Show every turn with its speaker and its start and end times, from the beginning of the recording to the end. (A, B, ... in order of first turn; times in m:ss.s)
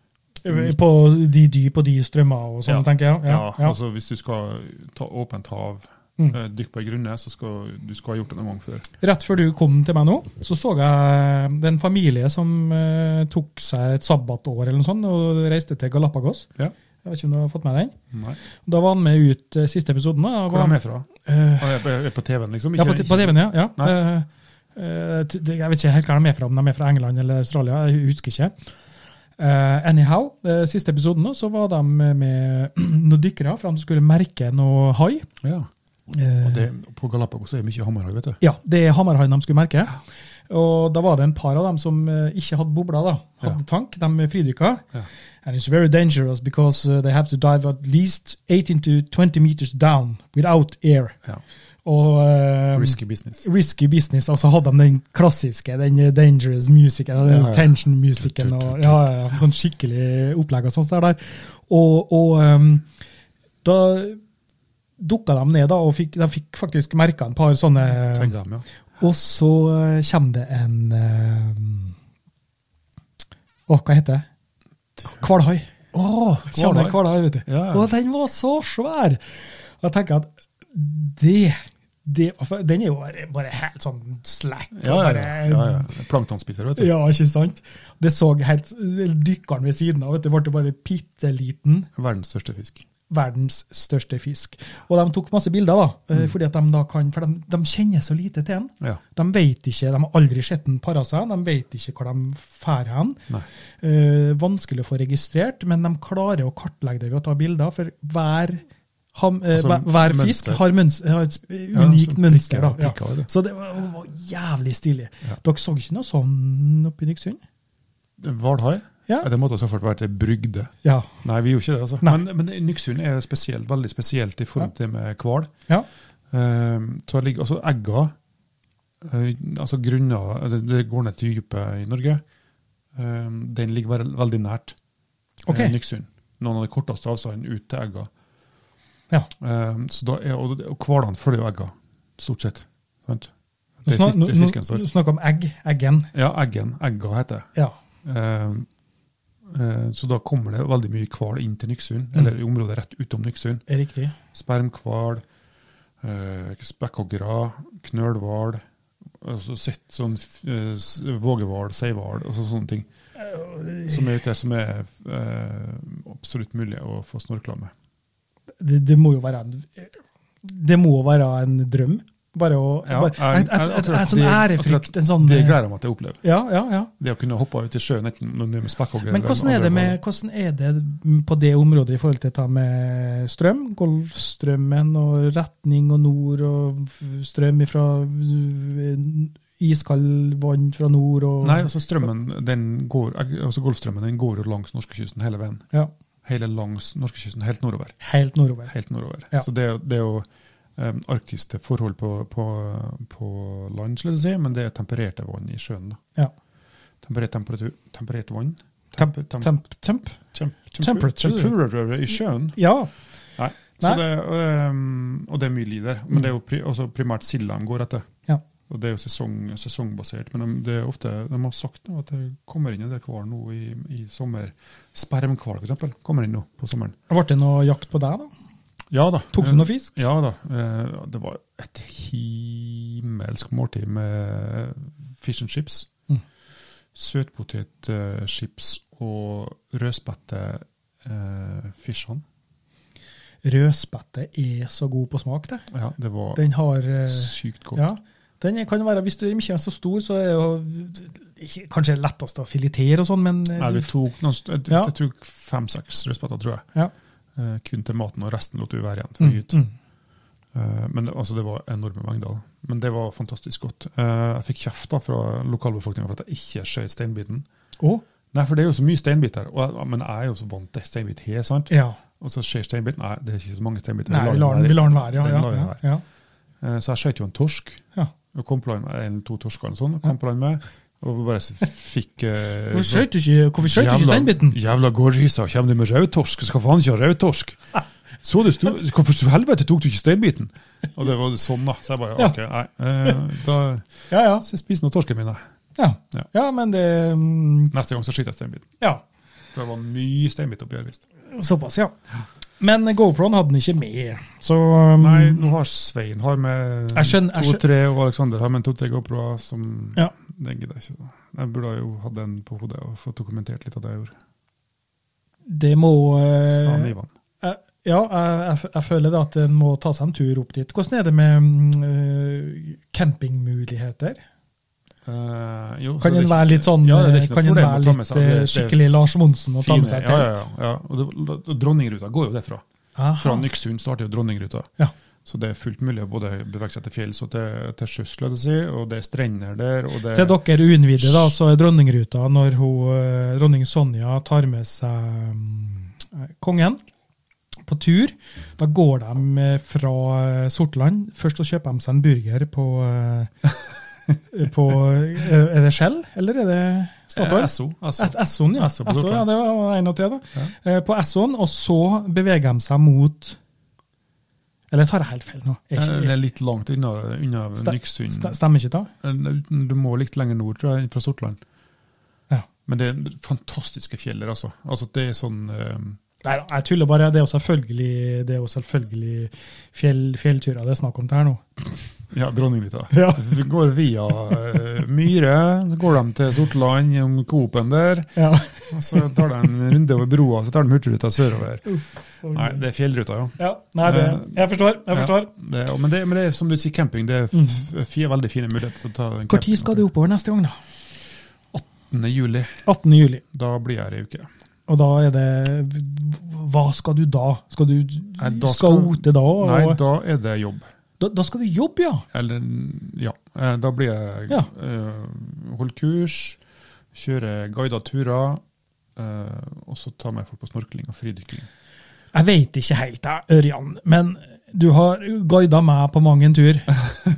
0:00.4-0:03.8 A
0:00.5-0:00.8 B
0:02.7-0:08.9 B
0:09.0-0:16.5 A
0:17.0-0:18.0 A
0:18.1-0:18.4 B
0:18.6-0:21.8 A
0:20.5-0:24.0 B
0:22.8-0:28.5 A
0:29.4-0:35.3 A
0:35.4-0:35.7 B
0:36.1-0:36.6 A
0:36.4-0:38.4 B
0:38.4-0:44.8 A
0:45.4-0:51.2 A
0:51.8-1:02.9 A
0:52.7-0:53.4 B
0:57.2-0:59.1 B
1:03.6-1:04.2 A
1:05.0-1:08.4 A
1:08.0-1:08.7 B
1:09.0-1:12.0 A
1:13.7-1:14.3 A
1:15.1-1:15.7 A
1:15.9-1:17.9 B
1:16.5-1:25.9 A
1:24.8-1:26.9 B
1:26.8-1:31.9 A
1:32.0-1:32.8 B
1:33.1-1:43.2 A
1:43.8-1:48.6 A
1:49.1-1:57.4 A
1:49.5-1:50.6 B
1:51.7-1:53.3 B
1:58.2-2:05.5 B
2:00.8-2:01.1 A
2:06.3-2:08.2 B
2:09.0-2:12.2 B
2:13.0-2:14.8 B
2:15.5-2:15.7 A
2:15.5-2:18.1 B
2:19.4-2:23.3 B
2:23.8-2:24.8 B
2:23.9-2:26.1 A
2:26.1-2:27.5 B
2:28.0-2:28.7 B
2:29.5-2:33.6 B
2:33.7-2:34.2 A
2:34.3-2:35.2 B
2:36.0-2:38.6 B
2:39.2-2:42.9 B
2:43.2-2:44.1 A
2:43.9-2:47.7 B
2:48.6-2:55.6 A
2:52.8-2:56.2 B
2:56.2-2:56.9 A
2:57.0-3:00.0 B
2:59.1-3:11.7 A
3:11.4-3:15.7 B
3:16.2-3:18.0 B
3:18.0-3:18.7 A
3:18.7-3:26.0 B
3:27.0-3:29.5 B
3:29.0-3:30.2 A
3:30.3-3:32.6 B
3:30.8-3:31.6 A
3:32.6-3:32.9 A
3:33.4-3:38.1 B
3:38.7-3:47.0 B
3:47.1-3:48.3 A
3:48.9-3:55.9 B
3:49.3-3:49.9 A
3:56.9-4:02.2 B
4:03.4-4:05.7 A
4:05.7-4:06.4 B
4:06.4-4:13.9 A
4:07.1-4:07.8 B
4:13.6-4:16.7 B
4:17.4-4:19.6 B
4:19.2-4:19.7 A
4:20.5-4:27.5 B
4:28.3-4:35.8 B
4:31.7-4:32.0 A
4:34.1-4:36.0 A
4:36.6-4:43.1 B
4:42.7-4:44.6 A
4:43.6-4:47.6 B
4:48.2-4:55.4 B
4:54.1-4:54.4 A
4:55.8-4:57.7 A
4:57.7-4:58.7 B
4:59.5-5:01.0 B
5:01.3-5:02.0 A
5:02.6-5:05.4 A
5:05.0-5:14.2 B
5:06.9-5:07.6 A
5:15.5-5:24.2 A
5:16.4-5:17.1 B
5:25.1-5:28.9 B
5:26.0-5:30.4 A
5:29.6-5:32.6 B
5:33.0-5:33.5 A
5:33.2-5:34.7 B
5:35.2-5:40.4 B
5:40.1-5:46.8 A
5:41.0-5:41.3 B
5:47.7-5:53.3 A
5:54.3-6:03.4 A
5:57.1-5:59.3 B
6:04.7-6:06.1 A
6:05.8-6:08.4 B
6:07.6-6:08.9 A
6:09.0-6:11.4 B
6:12.7-6:16.0 B
6:16.2-6:21.4 A
6:22.1-6:31.7 B
6:22.9-6:23.2 A
6:28.2-6:29.2 A
6:31.7-6:32.6 A
6:32.3-6:39.8 B
6:33.4-6:35.3 A
6:37.3-6:37.6 A
6:39.3-6:40.6 A
6:41.5-6:42.6 B
6:42.7-6:43.2 A
6:43.3-6:44.3 B
6:44.7-6:49.8 A
6:48.2-6:50.7 B
6:51.0-6:52.0 A
6:52.1-6:56.4 B
6:56.9-6:58.4 B
6:59.0-7:01.5 B
7:02.1-7:06.8 A